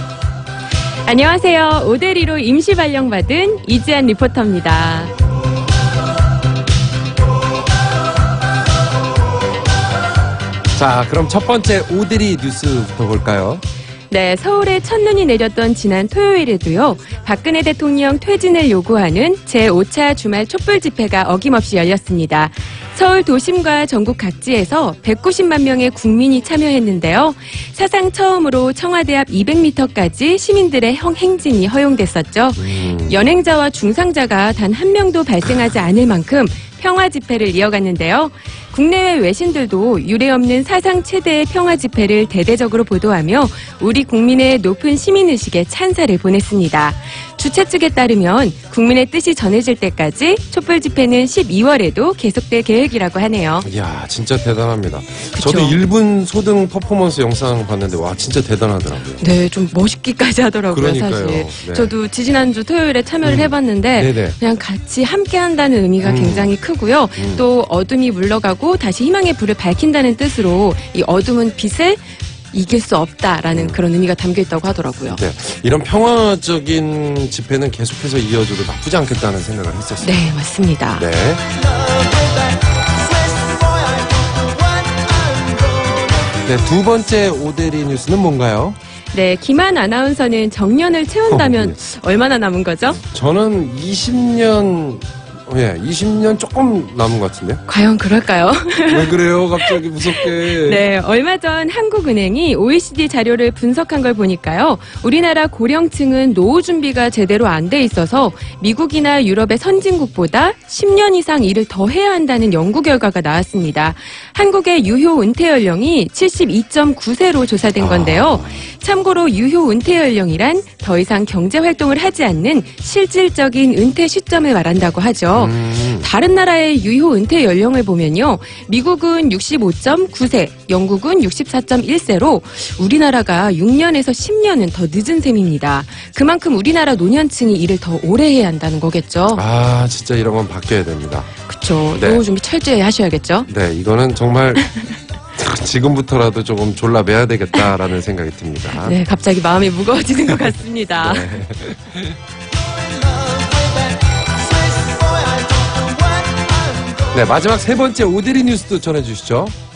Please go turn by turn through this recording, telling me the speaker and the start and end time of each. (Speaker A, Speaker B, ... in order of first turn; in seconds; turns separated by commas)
Speaker A: 1.1-5.1, Speaker B: 10.8-13.6, Speaker A: 14.1-53.7, Speaker B: 32.6-33.2, Speaker B: 53.6-59.2, Speaker A: 55.3-55.8, Speaker A: 59.2-75.2, Speaker B: 60.7-61.9, Speaker B: 63.2-64.4, Speaker B: 66.0-66.5, Speaker B: 67.2-67.4, Speaker B: 73.5-73.8, Speaker B: 75.1-80.2, Speaker A: 80.0-81.0, Speaker B: 81.0-81.4, Speaker B: 86.5-88.8, Speaker A: 89.1-93.0, Speaker B: 91.3-91.8, Speaker B: 93.0-97.6, Speaker A: 97.7-139.4, Speaker B: 98.9-100.9, Speaker B: 117.8-118.7, Speaker B: 125.3-126.1, Speaker B: 139.3-141.3, Speaker A: 141.5-143.5, Speaker B: 142.0-142.2, Speaker B: 143.5-149.0, Speaker A: 148.7-151.4, Speaker B: 151.0-152.2, Speaker B: 157.1-159.6